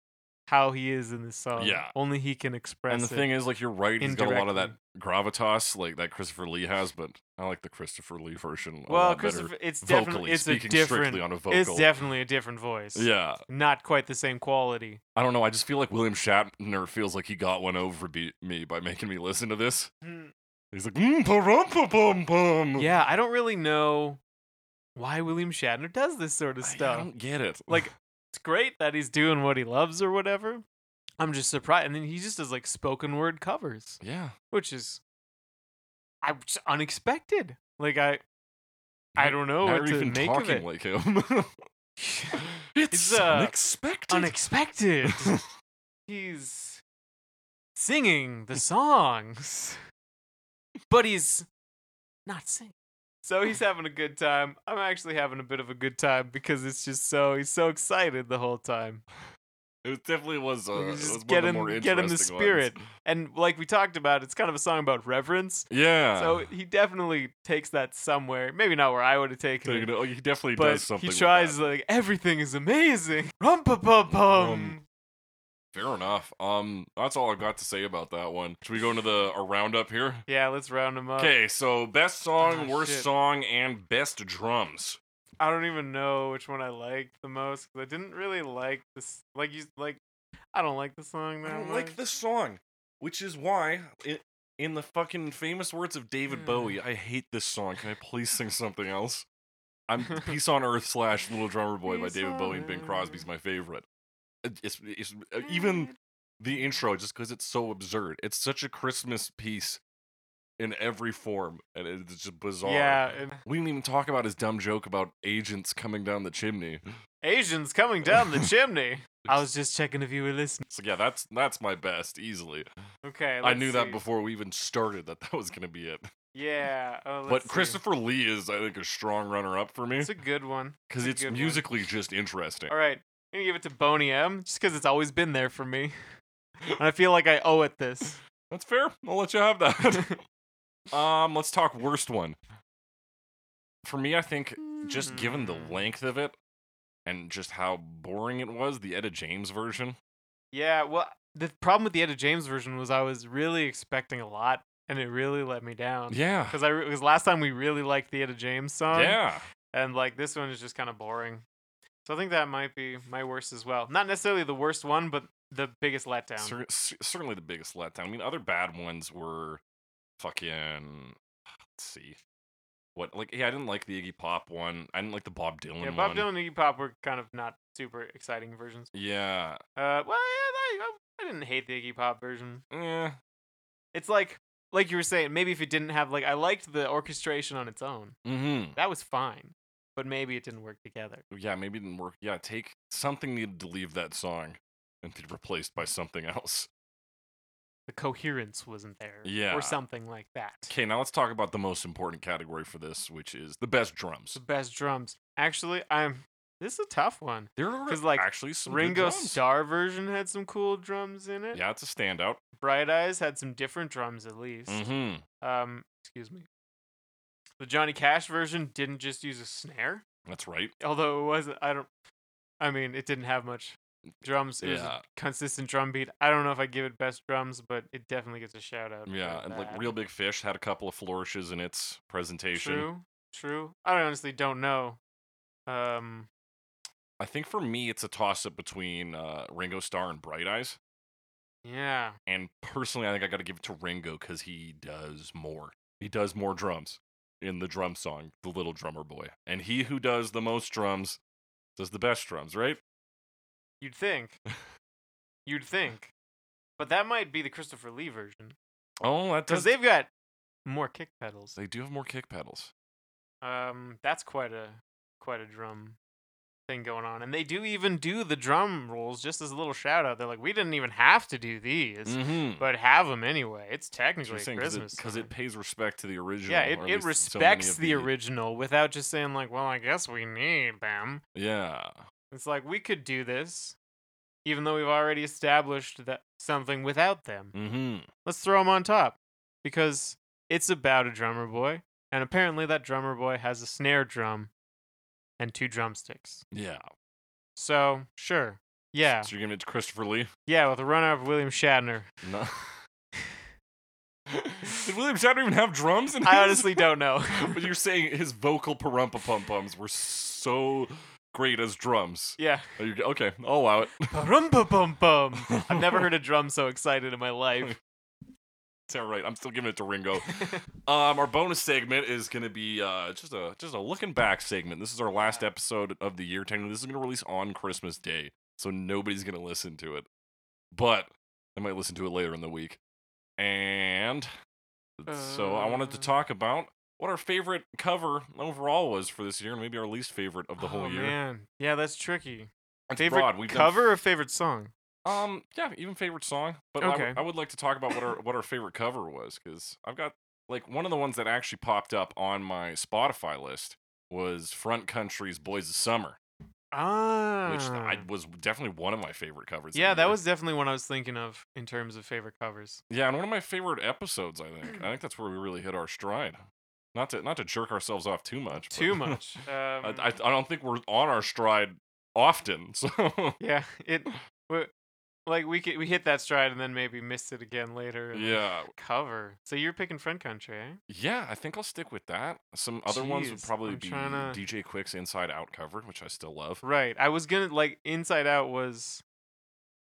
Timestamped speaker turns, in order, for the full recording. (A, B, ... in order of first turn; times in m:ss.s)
0:00.5-0:03.3 A
0:01.6-0:01.9 B
0:02.9-0:11.9 B
0:04.0-0:04.7 A
0:08.9-0:15.0 A
0:13.0-0:13.4 B
0:15.2-0:19.9 B
0:20.0-0:20.3 A
0:20.7-0:22.9 B
0:22.8-0:24.2 A
0:25.0-0:27.1 A
0:26.6-0:27.9 B
0:27.7-0:30.6 A
0:31.2-0:34.0 A
0:34.0-0:34.4 B
0:34.5-0:35.0 A
0:36.2-0:38.2 A
0:39.2-0:41.6 B
0:39.2-0:40.6 A
0:42.0-0:43.6 A
0:42.4-0:44.4 B
0:44.1-0:45.4 A
0:45.1-0:45.4 B
0:46.1-0:46.8 A
0:47.8-0:49.8 A
0:50.9-0:51.5 A
0:52.3-0:59.0 A
0:59.8-1:02.8 B
1:00.7-1:09.9 A
1:05.7-1:06.4 B
1:09.6-1:11.6 B
1:10.6-1:14.8 A
1:14.1-1:14.8 B
1:15.7-1:20.2 B
1:20.3-1:21.3 A
1:21.2-1:25.0 B
1:22.4-1:23.1 A
1:25.4-1:30.0 A
1:30.5-1:32.0 A
1:31.4-1:39.3 B
1:36.3-1:36.8 A
1:39.9-1:43.8 B
1:41.9-1:43.2 A
1:44.4-1:49.8 B
1:45.4-1:45.9 A
1:50.6-1:56.8 B
1:52.6-1:53.4 A
1:57.2-2:00.6 A
2:00.7-2:02.7 B
2:03.0-2:04.0 A
2:03.4-2:06.1 B
2:06.3-2:07.8 A
2:07.3-2:10.1 B
2:10.0-2:11.7 A
2:10.9-2:12.7 B
2:12.7-2:16.0 A
2:16.8-2:18.2 A
2:18.5-2:20.2 B
2:20.9-2:22.4 B
2:23.8-2:26.4 B
2:24.8-2:25.8 A
2:27.1-2:30.0 B
2:30.5-2:39.2 A
2:36.1-2:36.6 B
2:38.9-2:39.4 B
2:39.7-2:41.4 A
2:42.0-2:46.6 A
2:46.4-2:49.6 B
2:50.2-2:51.2 B
2:51.7-2:52.2 B
2:53.0-2:56.3 B
2:55.8-2:58.9 A
2:58.9-2:59.6 B
2:59.8-3:02.6 A
3:02.7-3:03.2 B
3:03.9-3:08.2 A
3:08.2-3:08.8 B
3:08.8-3:11.2 A
3:11.3-3:16.7 B
3:17.9-3:20.7 A
3:19.2-3:19.8 B
3:20.7-3:24.4 B
3:24.4-3:31.6 A
3:27.6-3:29.4 B
3:31.5-3:32.4 B
3:32.6-3:34.8 A
3:34.7-3:35.2 B
3:35.4-3:36.5 A
3:37.6-3:40.0 A
3:40.3-3:40.7 B
3:40.8-3:41.9 A
3:42.6-3:49.9 A
3:44.6-3:45.0 B
3:49.1-3:52.9 B
3:52.5-3:55.0 A
3:55.7-3:56.3 A
3:57.2-4:00.8 B
4:01.6-4:02.2 A
4:02.3-4:11.2 B
4:11.8-4:12.8 B
4:13.8-4:14.4 A
4:15.5-4:16.1 A
4:16.8-4:18.6 A
4:19.0-4:19.7 B
4:19.5-4:20.1 A
4:20.6-4:21.6 A
4:21.6-4:22.7 B
4:23.4-4:26.0 A
4:26.7-4:35.3 A
4:32.1-4:32.6 B
4:34.2-4:38.1 B
4:36.5-4:41.2 A
4:41.4-4:42.0 B
4:42.3-4:43.8 A
4:44.4-4:47.5 A
4:47.5-4:48.1 B
4:48.2-4:54.5 A
4:55.4-4:56.4 A
4:56.5-4:56.9 B
4:57.6-4:59.3 A
4:59.2-5:00.3 B
5:00.5-5:02.1 A
5:02.2-5:02.8 B
5:03.2-5:03.4 A
5:04.3-5:14.1 B
5:06.2-5:07.7 A
5:12.4-5:12.7 A
5:14.1-5:17.8 A
5:15.4-5:16.1 B
5:18.9-5:30.1 B
5:20.2-5:20.6 A
5:25.2-5:25.4 A
5:30.7-5:32.8 B
5:33.4-5:34.3 B
5:35.0-5:41.2 B
5:35.1-5:36.1 A
5:40.6-5:44.7 A
5:42.9-5:43.9 B
5:45.0-5:56.2 B
5:46.8-5:47.2 A
5:56.7-5:58.0 A
5:57.5-6:00.2 B
5:59.7-6:02.8 A
6:02.9-6:06.4 B
6:06.9-6:09.2 B
6:08.7-6:10.1 A
6:09.8-6:13.4 B
6:13.4-6:14.7 A
6:15.3-6:20.8 A
6:18.1-6:18.7 B
6:20.9-6:26.6 B
6:22.9-6:24.4 A
6:26.6-6:29.0 A